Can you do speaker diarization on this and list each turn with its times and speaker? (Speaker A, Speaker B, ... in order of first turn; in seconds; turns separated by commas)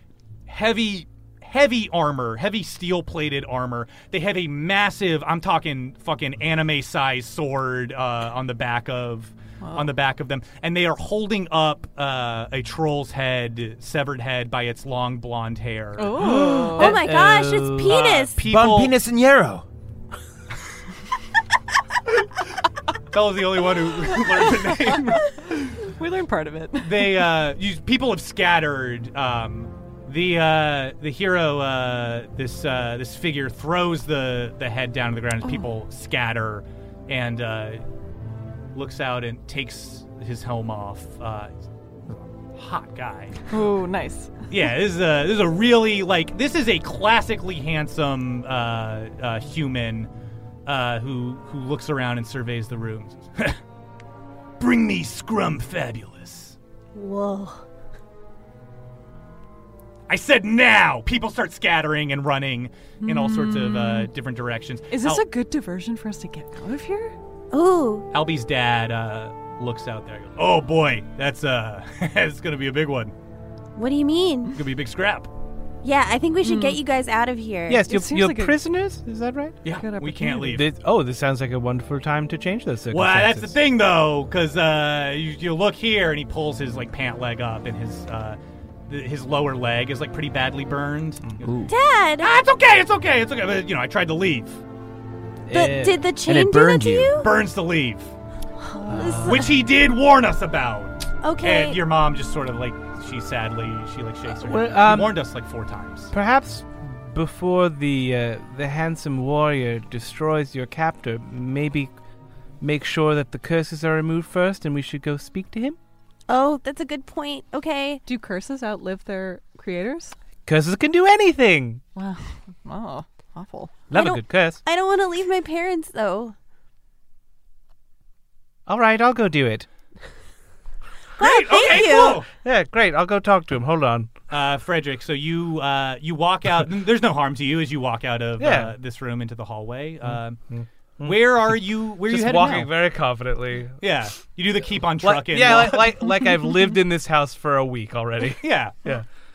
Speaker A: 0.5-16.4, Speaker B: 9.6-9.9, Speaker B: 16.0-16.9, Speaker C: 16.2-18.0, Speaker D: 16.7-18.4, Speaker A: 17.8-19.0, Speaker E: 18.4-19.6, Speaker A: 23.1-25.5, Speaker B: 24.4-27.3, Speaker A: 26.8-37.8, Speaker A: 38.7-41.5, Speaker A: 42.5-43.4, Speaker B: 43.5-44.4, Speaker A: 44.5-50.1, Speaker A: 50.6-53.6, Speaker A: 54.6-56.6, Speaker D: 56.9-57.6, Speaker A: 60.1-65.2, Speaker B: 63.0-64.1, Speaker B: 64.9-67.1, Speaker D: 67.5-68.1, Speaker A: 68.1-73.1, Speaker D: 73.8-74.6, Speaker A: 74.5-75.3, Speaker D: 75.8-77.8, Speaker B: 76.4-76.8, Speaker C: 77.7-79.6, Speaker B: 77.8-78.6, Speaker A: 79.6-80.7, Speaker B: 79.7-80.5, Speaker C: 80.5-83.6, Speaker A: 82.9-91.5, Speaker E: 91.4-91.7, Speaker D: 91.7-92.3, Speaker A: 92.2-94.6, Speaker C: 95.5-96.0, Speaker D: 95.5-97.3, Speaker E: 96.2-97.2, Speaker A: 97.2-98.1, Speaker D: 98.6-99.5, Speaker C: 98.9-99.4, Speaker A: 99.0-106.1, Speaker D: 101.2-101.8, Speaker C: 104.3-105.2, Speaker C: 106.1-111.9, Speaker C: 112.6-115.8, Speaker D: 116.3-118.0, Speaker B: 118.1-120.2, Speaker C: 120.4-121.8, Speaker B: 121.9-123.9, Speaker C: 123.9-124.6, Speaker D: 123.9-126.3, Speaker C: 128.7-129.7, Speaker D: 131.2-132.2, Speaker A: 131.2-132.3, Speaker C: 132.3-134.1, Speaker A: 134.3-140.4, Speaker C: 138.4-138.7, Speaker C: 140.1-143.8, Speaker A: 141.0-142.7, Speaker A: 143.8-146.0, Speaker C: 145.0-149.1, Speaker A: 148.4-148.8